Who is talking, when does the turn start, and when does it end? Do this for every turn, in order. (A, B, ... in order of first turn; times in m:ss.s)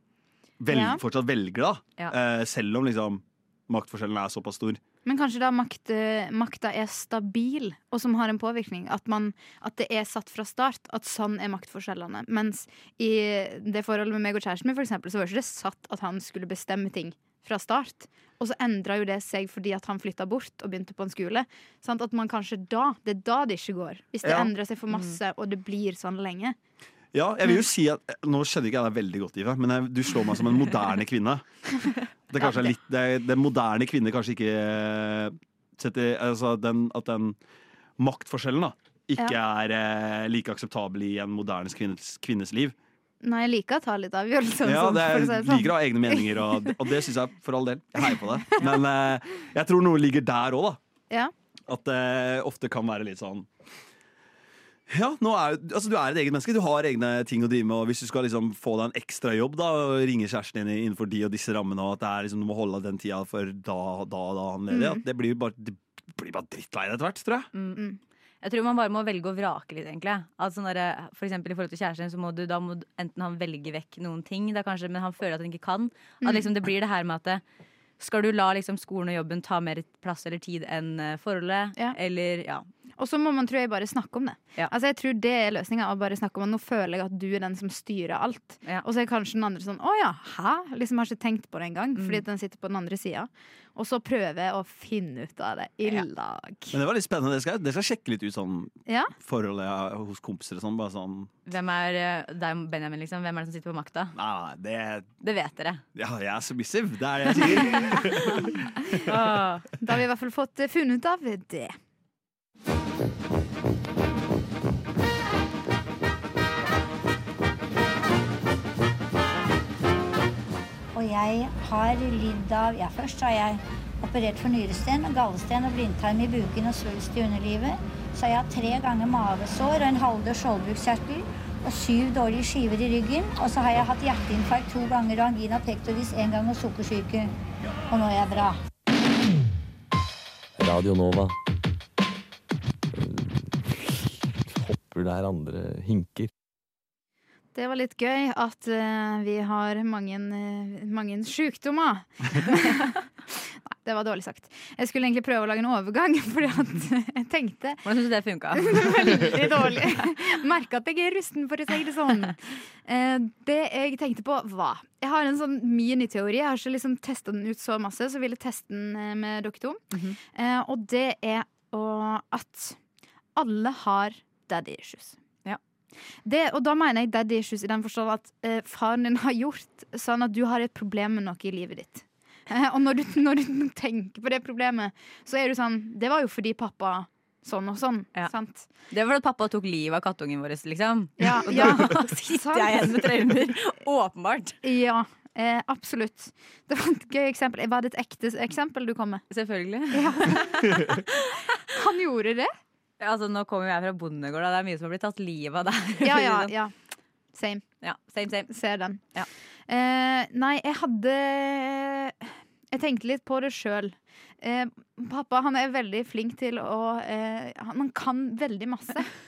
0:00.6-0:04.8 A
0:00.7-0:01.0 B
0:05.0-0:26.6 B
0:24.2-0:24.5 A
0:27.1-0:31.4 A
0:32.3-0:37.4 A
0:38.0-0:42.8 A
0:43.2-0:46.8 B
0:44.6-0:50.8 A
0:51.7-0:53.5 A
0:54.9-1:07.5 A
1:04.7-1:05.0 B
1:07.5-1:07.8 C
1:08.4-1:17.4 C
1:16.2-1:16.5 B
1:18.0-1:22.6 C
1:23.0-1:36.8 B
1:32.0-1:32.2 C
1:36.7-1:41.3 A
1:38.9-1:39.1 B
1:41.5-1:44.1 C
1:44.2-1:45.1 A
1:45.2-1:45.8 C
1:46.0-1:48.6 A
1:47.6-1:48.0 C
1:49.1-1:49.7 C
1:49.8-1:51.7 B
2:00.9-2:17.3 D
2:17.9-2:18.6 D
2:20.6-2:21.4 E
2:22.9-2:23.8 E
2:24.5-2:26.3 E
2:27.6-2:37.8 B
2:37.8-2:39.2 C
2:38.6-2:49.8 B
2:49.9-2:50.2 C
2:50.3-2:52.8 B
2:53.4-2:55.2 B
2:56.3-3:08.7 B
3:08.9-3:14.6 C
3:11.2-3:13.2 B
3:14.6-3:19.2 B
3:19.3-3:21.1 C
3:19.9-3:21.0 B
3:21.7-3:22.5 B
3:23.0-3:26.5 C
3:26.0-3:26.7 B
3:27.3-3:27.6 B
3:27.8-3:28.5 C
3:28.5-3:29.0 B
3:29.7-3:39.1 B